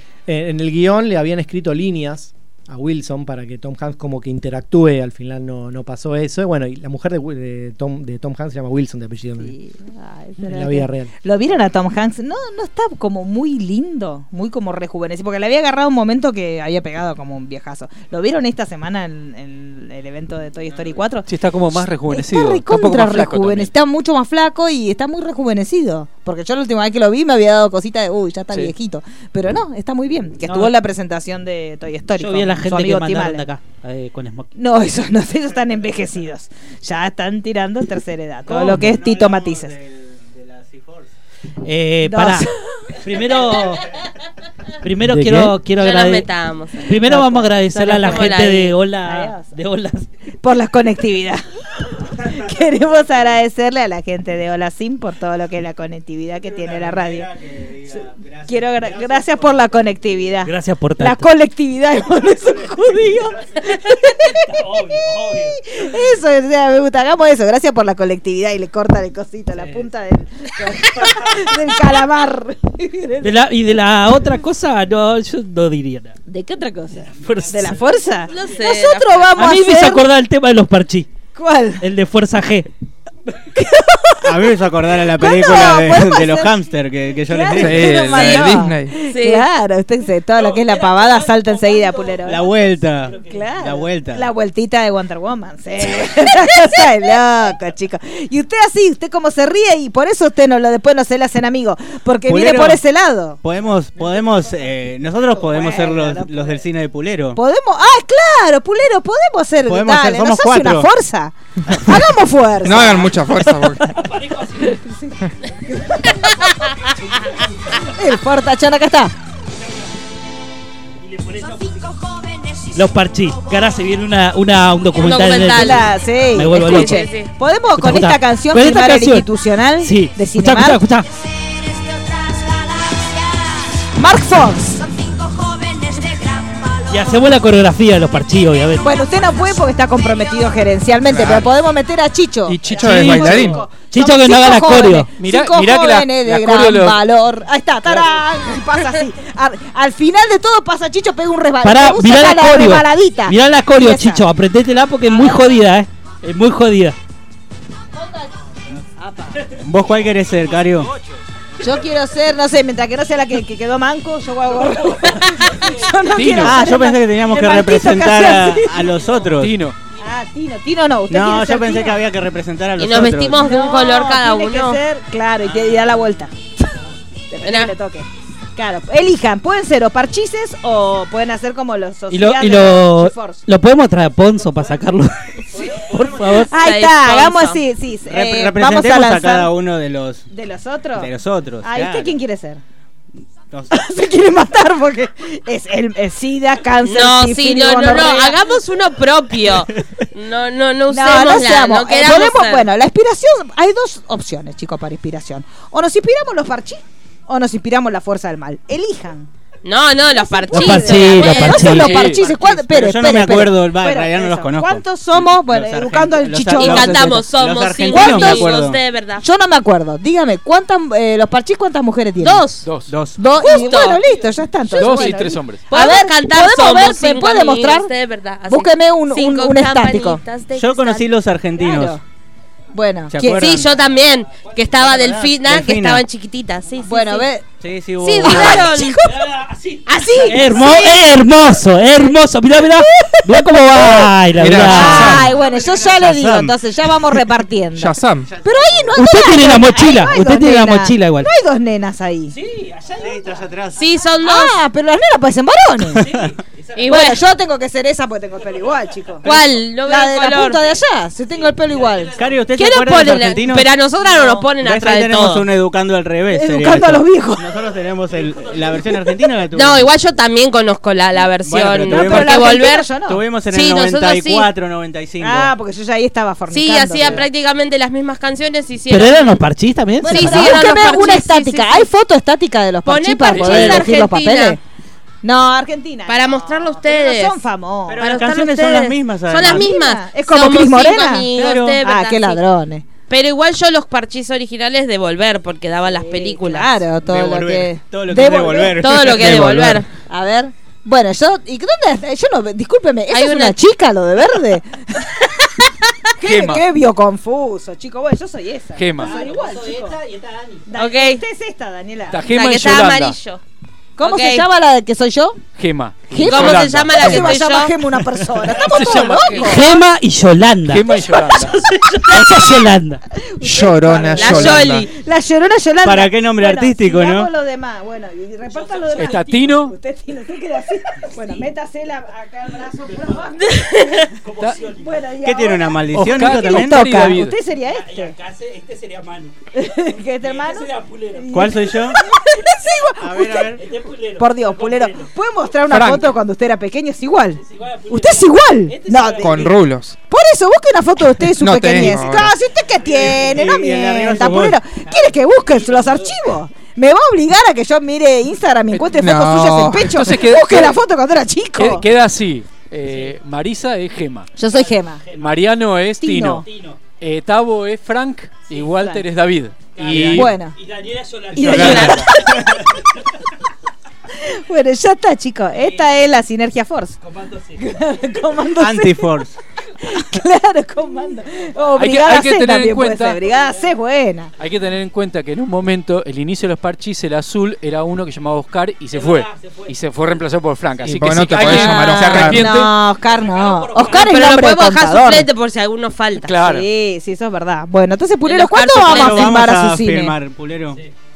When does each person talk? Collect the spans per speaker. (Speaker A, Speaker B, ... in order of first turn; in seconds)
Speaker A: 0.3-9.5, 10.4-11.1, 45.0-45.6
Speaker B: 9.4-21.3, 22.1-33.5, 34.6-39.7, 42.0-42.9, 47.1-48.4, 49.0-49.5, 50.4-51.5, 52.0-57.3, 58.0-73.4, 76.3-80.0, 81.3-81.8, 83.5-84.5, 85.1-86.5, 87.3-92.5, 93.2-103.4, 105.4-106.6, 107.4-115.2, 115.7-116.5, 117.8-119.1, 125.5-130.8, 134.0-134.9, 138.8-154.2, 161.6-168.9, 170.0-172.0, 173.4-176.3, 177.3-183.4, 185.5-185.8, 186.5-189.5, 190.3-191.1, 191.6-192.6, 193.7-198.4, 200.9-209.3, 210.1-217.2, 217.9-218.5, 219.2-222.4, 223.2-227.9, 228.5-230.2, 231.6-232.0, 232.7-233.6, 236.8-237.4, 238.2-239.3, 239.9-240.9, 242.6-244.1, 244.7-252.4, 254.2-256.1, 256.9-262.2, 264.1-264.4, 266.3-267.4, 271.9-273.2, 275.2-277.3, 280.0-284.6, 285.2-288.3, 289.4-291.3, 291.8-292.9, 295.9-299.1, 300.1-304.8, 306.2-310.0, 310.7-312.2, 314.0-315.4, 316.1-319.7, 323.3-333.8, 334.5-338.2, 339.5-343.6, 344.1-349.4, 350.1-361.8, 364.4-365.1, 366.0-366.4, 368.6-369.0, 369.9-370.6, 371.3-372.7, 374.2-379.2, 379.8-384.3, 391.3-395.3, 396.4-400.2
Speaker C: 21.3-23.7, 145.2-147.0, 166.1-166.6, 169.4-169.8, 211.7-212.2, 222.7-222.9, 224.7-225.6, 283.3-283.9, 306.2-306.6, 308.8-309.2, 312.1-313.2, 315.6-317.4, 318.4-319.6, 320.7-321.6, 328.9-329.7, 335.9-337.4, 359.9-360.8, 361.6-364.3, 365.2-366.4, 367.0-370.3, 371.4-372.1, 381.8-383.2, 384.4-392.7, 396.2-396.6
Speaker D: 30.4-30.7, 32.2-34.5, 41.6-43.9, 44.8-46.3, 46.8-50.1, 60.4-61.3, 64.5-65.2, 73.2-76.1, 77.2-77.8, 79.4-81.1, 81.8-82.7, 121.1-121.6, 122.7-127.1, 127.8-129.3, 129.8-131.1, 136.9-138.8, 142.8-145.1, 151.6-157.0, 182.1-185.3, 185.8-186.5, 210.5-211.9, 240.2-245.2, 248.9-251.3, 278.9-280.6, 319.4-320.8, 322.1-323.0, 348.8-349.3
Speaker E: 38.5-41.1, 56.5-59.7, 84.2-88.4, 92.3-94.2, 102.3-102.8, 103.4-107.4, 109.7-110.9, 159.6-160.9, 166.4-169.5, 171.1-173.4, 188.1-190.2, 191.0-192.2, 193.5-193.8, 212.5-218.8, 222.9-223.2, 230.6-232.0, 233.1-233.7, 234.8-236.0, 237.6-238.7, 245.3-246.5, 253.0-253.8, 259.2-259.5, 262.2-263.7, 264.6-269.9, 271.5-275.5, 287.9-289.7, 291.3-291.8, 297.1-299.8, 325.8-327.3, 335.2-336.9, 341.3-342.0, 343.0-343.7, 353.0-354.6, 369.9-370.3, 378.6-379.4, 398.9-400.8
Speaker F: 45.7-47.0, 47.9-48.8, 78.3-79.4, 89.1-89.5, 125.0-125.8, 126.5-127.3, 172.8-174.8, 177.4-177.7, 186.5-187.6, 196.8-202.7, 209.6-212.0, 216.6-219.2, 222.2-222.7, 223.3-224.0, 224.8-225.1, 225.7-231.1, 233.4-237.3, 238.0-239.1, 253.8-254.6, 256.8-257.2, 259.2-260.6, 262.5-265.5, 269.5-273.0, 273.5-274.5, 276.5-279.4, 280.1-281.9, 282.9-284.6, 286.1-287.4, 288.0-292.4, 293.1-296.8, 298.8-299.9, 303.1-303.6, 310.7-311.2, 312.3-313.4, 314.0-314.5, 316.2-317.8, 324.2-324.9, 333.5-334.1, 371.5-372.0, 393.8-396.3, 398.3-399.4
Speaker G: 87.6-89.0, 112.6-114.0, 141.1-141.5, 142.5-143.7, 244.4-245.2, 247.8-248.3, 323.4-324.9, 345.7-346.1, 349.2-350.0, 351.4-352.4, 359.0-360.1, 390.8-392.5